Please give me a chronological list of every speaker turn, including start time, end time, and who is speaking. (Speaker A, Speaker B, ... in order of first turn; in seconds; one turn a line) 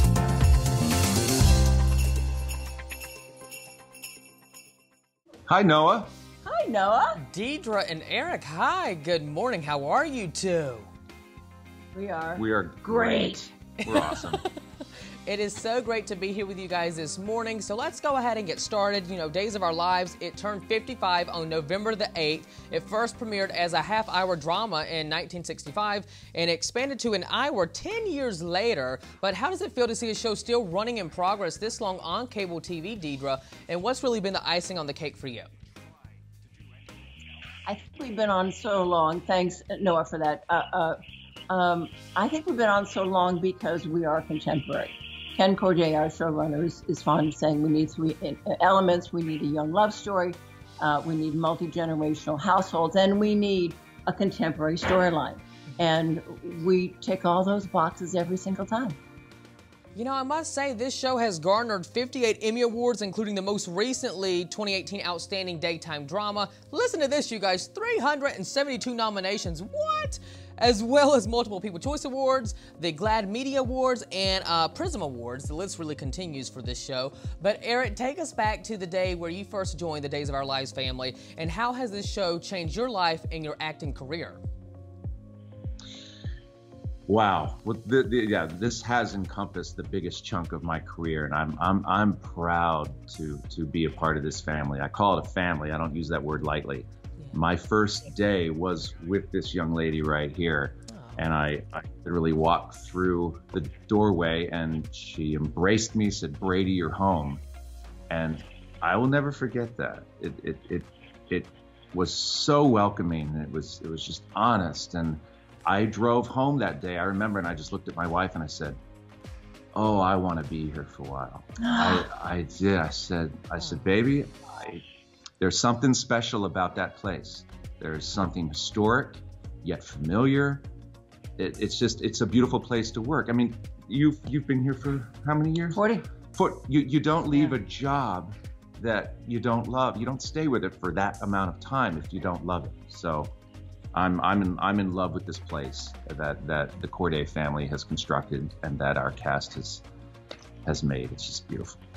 Speaker A: 5.5-6.1
Speaker B: 6.5-7.2
Speaker C: 7.2-10.9
Speaker B: 11.9-13.5
Speaker A: 12.4-14.4
Speaker C: 13.8-14.5
Speaker C: 15.3-35.5
Speaker B: 37.7-41.0
Speaker B: 41.5-59.0
Speaker C: 60.0-84.4
Speaker A: 87.1-107.4
Speaker C: 100.9-101.2
Speaker A: 108.1-118.8
Speaker A: 119.8-124.8
Speaker B: 121.6-122.1
Speaker C: 123.6-123.9
Speaker A: 125.4-130.7
Speaker A: 131.4-135.8
Speaker B: 135.7-136.1
Speaker A: 136.3-143.3
Speaker A: 143.9-149.8
Speaker A: 150.7-151.8